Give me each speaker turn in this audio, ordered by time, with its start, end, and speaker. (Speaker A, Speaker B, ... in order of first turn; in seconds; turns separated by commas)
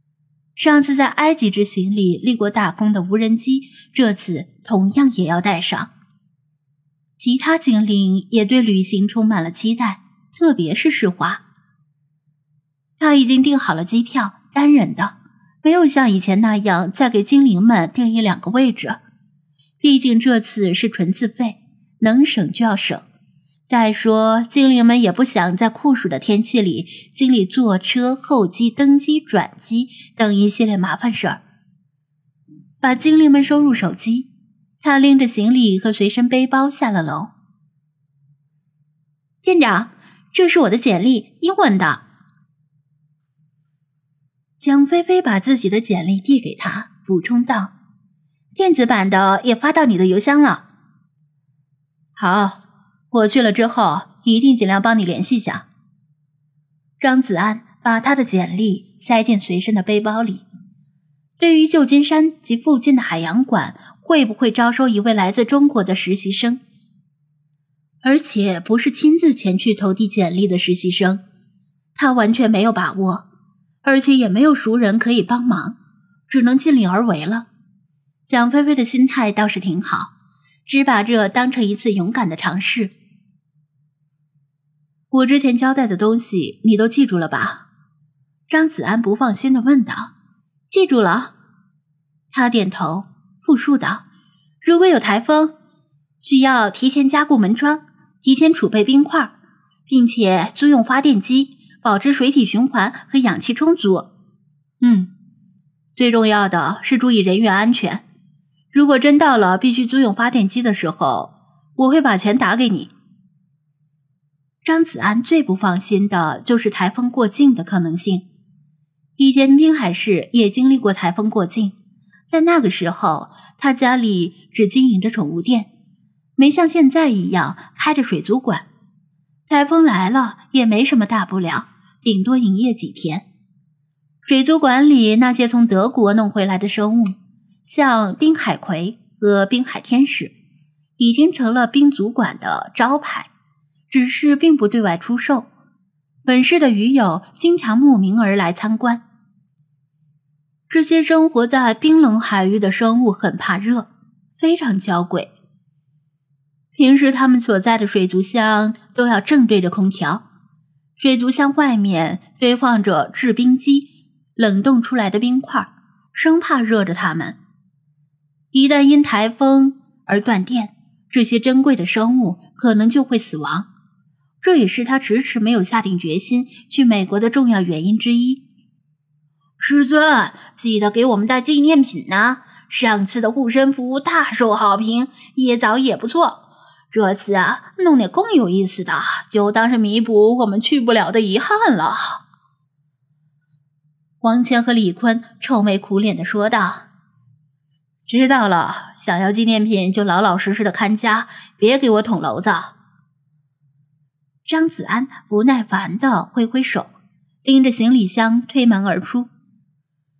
Speaker A: 0.6-5.9, Speaker A: 7.2-11.4, Speaker A: 13.0-19.0, Speaker A: 19.8-23.1, Speaker A: 23.7-31.4, Speaker A: 32.8-34.3, Speaker A: 34.8-37.3, Speaker A: 39.4-42.0, Speaker A: 44.6-47.7, Speaker A: 48.5-50.6, Speaker A: 52.1-55.6, Speaker A: 57.0-60.4, Speaker A: 61.4-66.6, Speaker A: 68.0-71.2, Speaker A: 72.0-73.2, Speaker A: 73.8-75.8, Speaker A: 76.3-77.5, Speaker A: 78.3-80.1, Speaker A: 80.7-82.9, Speaker A: 85.1-87.7, Speaker A: 88.5-90.1, Speaker A: 90.7-91.3, Speaker A: 92.3-94.0, Speaker A: 94.6-95.5, Speaker A: 96.2-99.3, Speaker A: 99.9-104.1, Speaker A: 104.8-105.1, Speaker A: 105.9-108.0, Speaker A: 108.7-112.9, Speaker A: 114.6-118.2, Speaker A: 119.2-121.7, Speaker A: 122.3-125.7, Speaker A: 126.4-128.7, Speaker A: 129.5-133.2, Speaker A: 134.2-140.3, Speaker A: 141.0-143.3, Speaker A: 143.9-145.5, Speaker A: 146.2-149.0, Speaker A: 150.7-155.3, Speaker A: 156.7-160.2, Speaker A: 161.0-167.4, Speaker A: 168.5-173.7, Speaker A: 174.4-178.4, Speaker A: 179.6-192.2, Speaker A: 194.2-196.9, Speaker A: 198.1-202.7, Speaker A: 204.4-206.9, Speaker A: 207.4-209.3